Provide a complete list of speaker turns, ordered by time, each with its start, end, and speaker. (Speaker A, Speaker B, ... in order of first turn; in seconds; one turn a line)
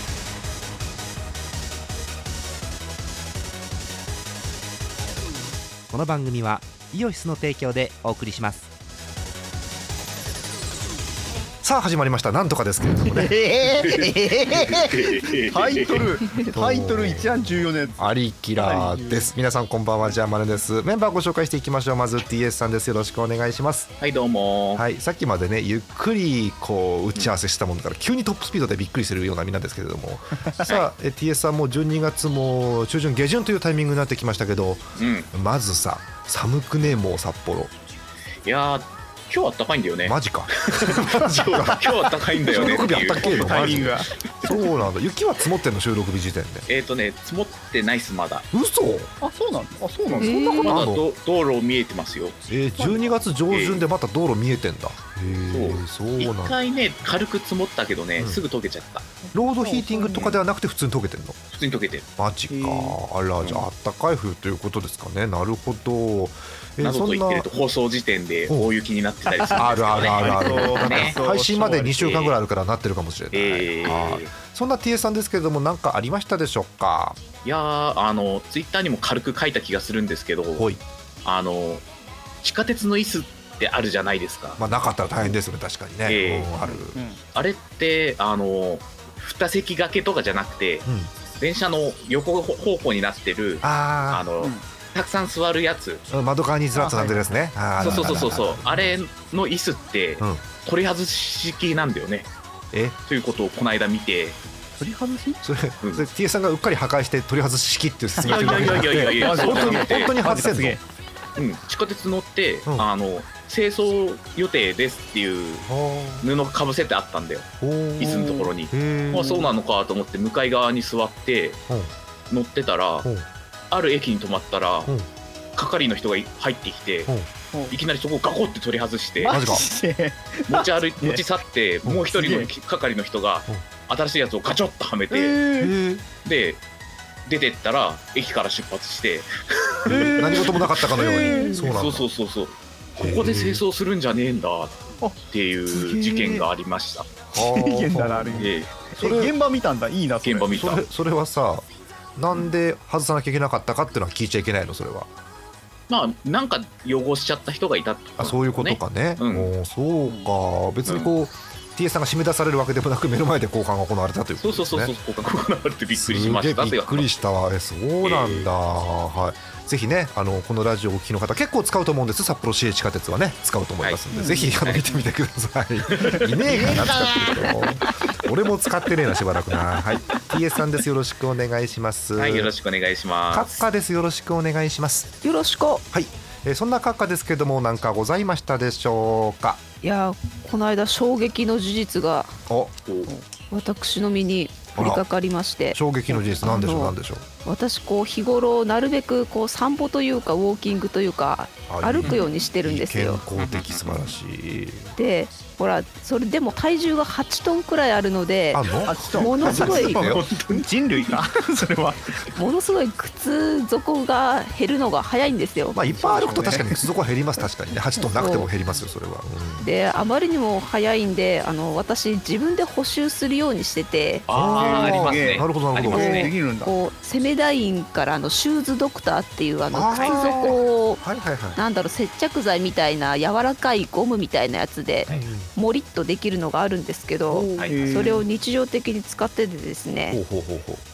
Speaker A: 5.9-8.7
Speaker B: 11.6-13.4
Speaker C: 13.0-18.0
Speaker D: 13.7-16.1
Speaker B: 16.5-23.9
Speaker C: 18.6-19.3
Speaker D: 24.0-24.8
Speaker B: 24.8-37.7
Speaker D: 35.0-35.3
Speaker D: 38.5-44.5
Speaker B: 40.0-46.7
Speaker C: 42.5-44.1
Speaker D: 46.7-48.5
Speaker B: 48.5-49.1
Speaker C: 49.2-50.7
Speaker D: 50.1-52.4
Speaker E: 50.2-50.8
Speaker B: 50.6-51.0
Speaker B: 52.5-56.6
Speaker C: 52.8-53.2
Speaker D: 53.5-53.9
Speaker D: 55.5-59.1
Speaker C: 59.2-60.3
Speaker B: 59.3-61.4
Speaker D: 61.5-62.1
Speaker B: 62.2-67.5
Speaker C: 62.5-63.0
Speaker D: 63.4-63.7
Speaker D: 66.8-71.2
Speaker C: 69.3-72.2
Speaker B: 69.6-77.2
Speaker D: 72.0-72.4
Speaker D: 73.3-74.3
Speaker D: 77.4-80.7
Speaker D: 81.2-81.8
Speaker D: 82.4-84.6
Speaker B: 84.6-87.0
Speaker D: 86.1-86.5
Speaker C: 86.6-87.2
Speaker D: 87.3-90.9
Speaker B: 90.8-91.1
Speaker D: 91.4-96.0
Speaker B: 93.6-94.3
Speaker B: 96.1-99.0
Speaker C: 96.7-98.2
Speaker D: 97.8-102.3
Speaker D: 103.1-104.4
Speaker C: 104.8-105.4
Speaker B: 105.4-110.8
Speaker C: 108.2-110.8
Speaker D: 108.2-110.2
Speaker D: 111.4-115.7
Speaker B: 115.6-116.3
Speaker D: 116.2-121.6
Speaker B: 117.6-119.5
Speaker C: 118.0-118.5
Speaker D: 122.3-123.1
Speaker D: 123.7-124.9
Speaker D: 125.5-127.1
Speaker C: 127.5-127.8
Speaker D: 127.7-129.4
Speaker C: 129.2-131.2
Speaker B: 129.3-129.7
Speaker D: 130.5-135.4
Speaker C: 132.1-132.5
Speaker C: 135.1-135.8
Speaker B: 135.6-136.0
Speaker D: 136.2-136.6
Speaker D: 137.3-147.1
Speaker C: 139.9-141.6
Speaker B: 139.9-142.1
Speaker B: 143.0-143.6
Speaker C: 145.7-146.5
Speaker B: 147.3-149.3
Speaker C: 147.4-150.8
Speaker D: 148.4-148.7
Speaker D: 150.2-150.8
Speaker B: 150.6-155.1
Speaker D: 155.9-159.5
Speaker B: 158.2-164.9
Speaker D: 160.8-161.1
Speaker D: 164.4-167.2
Speaker B: 165.9-182.5
Speaker D: 168.0-168.5
Speaker D: 173.8-174.9
Speaker C: 174.1-175.0
Speaker D: 175.9-176.5
Speaker C: 176.4-177.7
Speaker D: 182.2-183.7
Speaker B: 183.3-185.1
Speaker E: 185.2-185.8
Speaker B: 185.9-189.6
Speaker E: 189.8-192.3
Speaker B: 192.5-192.8
Speaker D: 192.9-193.1
Speaker E: 193.5-203.2
Speaker B: 194.8-195.0
Speaker B: 195.7-197.3
Speaker B: 201.7-204.9
Speaker D: 203.4-204.1
Speaker E: 205.0-210.0
Speaker B: 208.5-210.2
Speaker C: 208.9-212.2
Speaker D: 210.1-210.7
Speaker E: 212.3-215.8
Speaker B: 215.7-219.7
Speaker C: 215.9-216.8
Speaker E: 218.0-218.5
Speaker E: 219.6-224.3
Speaker D: 224.3-226.3
Speaker B: 224.3-226.3
Speaker C: 224.4-226.7
Speaker E: 225.9-231.0
Speaker B: 229.7-231.6
Speaker D: 230.1-230.4
Speaker E: 231.6-240.2
Speaker B: 235.1-235.5
Speaker B: 237.3-237.9
Speaker D: 237.6-237.8
Speaker C: 237.7-238.2
Speaker B: 240.1-240.8